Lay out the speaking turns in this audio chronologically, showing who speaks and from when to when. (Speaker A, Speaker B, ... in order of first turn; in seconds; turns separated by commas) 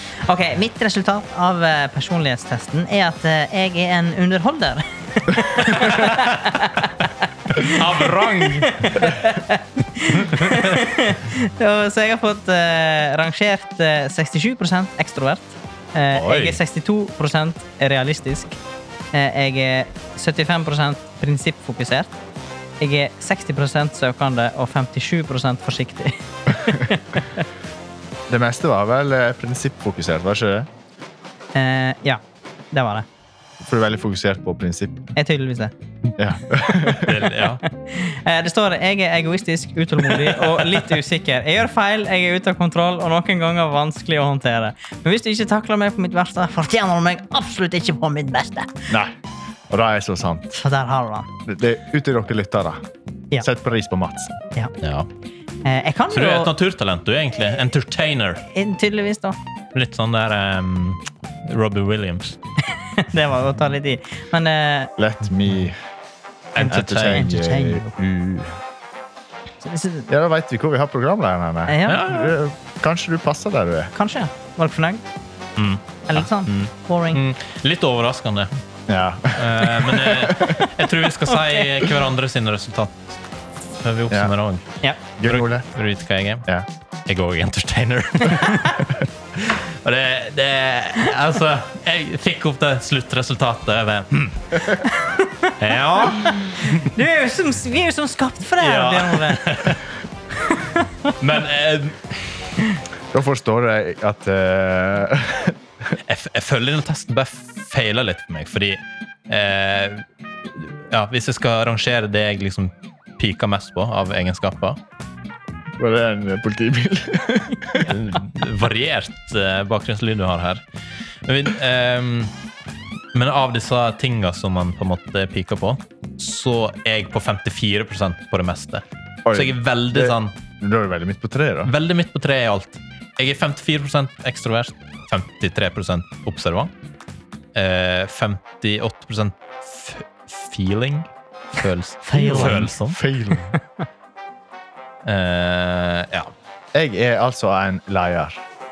Speaker A: 0.2-18.6, Speaker B: 5.8-6.2, Speaker B: 7.6-9.1, Speaker B: 10.2-10.8, Speaker B: 16.1-16.6, Speaker A: 19.1-22.1, Speaker A: 22.8-27.4, Speaker C: 26.6-26.9, Speaker C: 28.3-30.7, Speaker A: 31.6-32.2, Speaker A: 32.7-33.1, Speaker C: 33.6-35.1, Speaker A: 35.1-35.7, Speaker C: 36.2-37.2, Speaker B: 36.9-37.6, Speaker A: 37.7-48.8, Speaker C: 48.9-49.2, Speaker C: 49.7-50.6, Speaker A: 50.5-51.3, Speaker C: 51.5-52.8, Speaker C: 53.4-54.3, Speaker B: 54.8-55.1, Speaker A: 55.6-56.5, Speaker B: 56.1-58.4, Speaker A: 58.5-59.4, Speaker B: 59.7-62.4, Speaker A: 62.8-64.9, Speaker C: 65.0-65.8, Speaker B: 66.5-67.3, Speaker A: 66.6-67.9, Speaker C: 66.6-68.6, Speaker A: 69.6-70.1, Speaker C: 70.1-73.9, Speaker A: 71.7-72.1, Speaker B: 71.9-72.4, Speaker A: 74.0-75.0, Speaker B: 75.6-78.6, Speaker A: 76.1-77.2, Speaker C: 78.9-80.6, Speaker B: 79.3-83.2, Speaker B: 83.8-84.7, Speaker C: 85.2-85.7, Speaker B: 85.2-86.5, Speaker B: 87.1-94.8, Speaker A: 88.5-88.7, Speaker A: 94.8-99.4, Speaker B: 95.6-96.9, Speaker B: 98.6-99.8, Speaker A: 100.4-101.1, Speaker B: 101.2-102.5, Speaker C: 103.1-105.6, Speaker B: 106.0-114.8, Speaker C: 115.8-117.9, Speaker B: 117.8-120.6, Speaker B: 121.3-122.3, Speaker B: 123.1-130.4, Speaker C: 129.2-131.7, Speaker B: 131.7-136.7, Speaker B: 137.6-143.0, Speaker A: 142.0-142.7, Speaker C: 142.3-143.5, Speaker B: 145.1-146.3, Speaker C: 146.7-148.4